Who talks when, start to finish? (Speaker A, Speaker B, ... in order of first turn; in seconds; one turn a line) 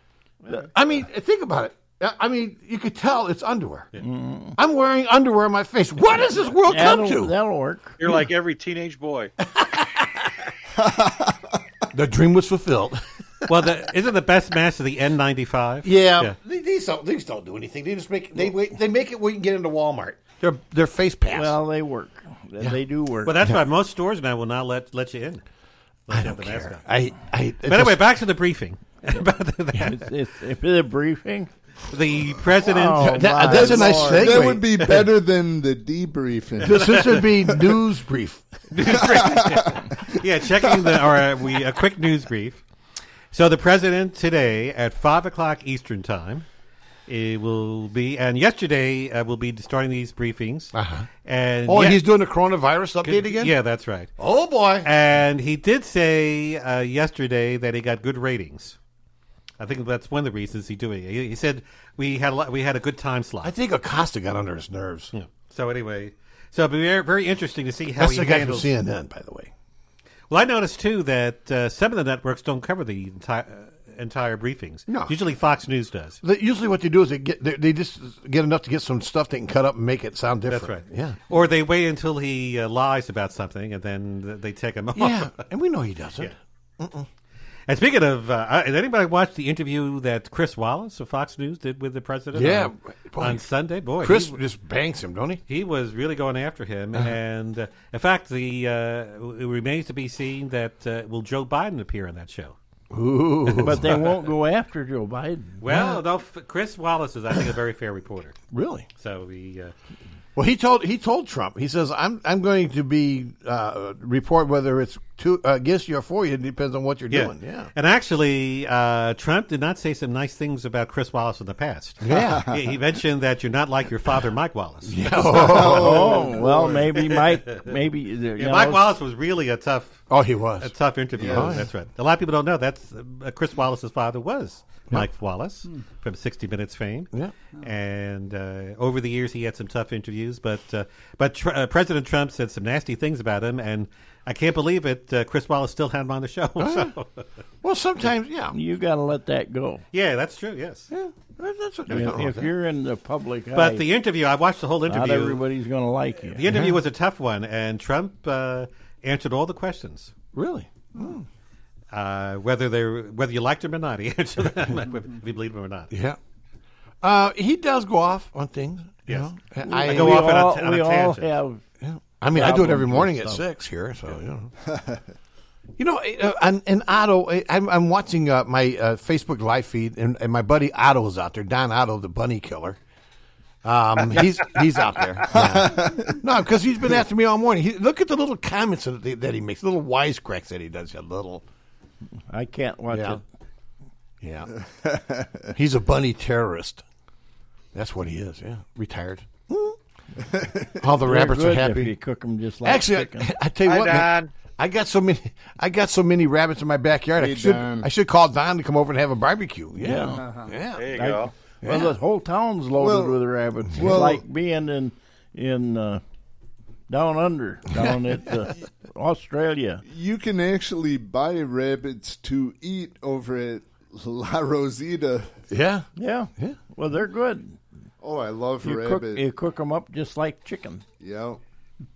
Speaker A: 0.7-3.9
Speaker B: 4.0-4.6
Speaker A: 4.5-7.3
Speaker B: 6.7-8.1
Speaker C: 8.0-9.3
Speaker A: 9.6-10.0
Speaker D: 10.8-11.3
Speaker A: 11.9-13.0
Speaker E: 13.5-16.3
Speaker A: 15.8-21.6
Speaker B: 21.3-23.4
Speaker E: 23.2-25.4
Speaker E: 26.1-26.8
Speaker A: 26.1-28.0
Speaker E: 27.6-30.1
Speaker B: 29.7-31.5
Speaker E: 31.9-34.0
Speaker B: 32.7-34.5
Speaker A: 33.0-34.9
Speaker D: 33.6-37.0
Speaker A: 36.6-38.5
Speaker E: 36.6-37.2
Speaker E: 38.7-42.6
Speaker D: 39.0-39.7
Speaker E: 43.3-46.4
Speaker E: 47.1-50.7
Speaker A: 50.7-51.1
Speaker E: 51.2-52.0
Speaker A: 51.6-53.5
Speaker E: 53.0-54.1
Speaker A: 54.2-54.9
Speaker E: 54.8-58.8
Speaker E: 59.6-63.5
Speaker A: 63.4-65.1
Speaker E: 65.1-68.7
Speaker A: 68.0-69.5
Speaker E: 70.3-76.2
Speaker A: 74.9-75.2
Speaker A: 76.2-81.2
Speaker E: 80.5-85.4
Speaker A: 84.9-87.1
Speaker E: 87.7-94.3
Speaker A: 92.3-93.4
Speaker A: 94.0-95.4
Speaker E: 95.5-102.5
Speaker A: 102.9-104.0
Speaker B: 103.5-105.6
Speaker E: 105.6-108.4
Speaker A: 105.7-106.0
Speaker A: 108.5-108.9
Speaker E: 109.0-109.7
Speaker A: 110.3-117.7
Speaker E: 117.1-125.7
Speaker A: 122.0-122.5
Speaker D: 122.1-122.4
Speaker A: 124.8-126.3
Speaker D: 125.2-126.8
Speaker B: 125.7-128.9
Speaker E: 126.9-127.6
Speaker E: 128.4-130.1
Speaker A: 130.1-131.7
Speaker E: 130.6-147.2
Speaker D: 131.2-131.6
Speaker A: 146.6-146.9
Speaker A: 147.6-148.6
Speaker B: 148.5-149.8
Speaker E: 149.9-150.9
Speaker A: 150.9-152.5
Speaker E: 151.9-152.2
Speaker B: 151.9-153.8
Speaker E: 153.5-155.4
Speaker B: 154.8-156.4
Speaker E: 156.3-160.1
Speaker A: 156.4-156.8
Speaker A: 160.3-161.2
Speaker E: 161.9-165.9
Speaker A: 165.9-166.2
Speaker A: 167.0-170.5
Speaker E: 169.1-171.3
Speaker B: 169.6-171.6
Speaker A: 171.8-174.5
Speaker B: 172.3-173.4
Speaker D: 174.7-175.0
Speaker A: 175.8-182.8
Speaker A: 183.6-191.4
Speaker D: 185.3-186.1
Speaker B: 192.3-193.2
Speaker A: 192.9-193.2
Speaker A: 194.2-194.5
Speaker D: 194.7-195.3
Speaker A: 195.5-196.8
Speaker A: 197.7-199.8
Speaker D: 200.2-200.7
Speaker A: 200.8-201.9
Speaker B: 201.0-203.3
Speaker A: 202.6-210.9
Speaker C: 203.6-204.3
Speaker D: 207.2-207.9
Speaker B: 209.8-210.3
Speaker C: 210.7-211.3
Speaker B: 210.9-216.0
Speaker A: 211.6-211.9
Speaker D: 212.8-213.2
Speaker D: 213.7-214.2
Speaker B: 216.9-219.8
Speaker D: 219.8-225.3
Speaker A: 225.5-225.9
Speaker B: 225.9-227.6
Speaker D: 228.0-229.2
Speaker B: 228.6-230.8
Speaker D: 231.0-231.4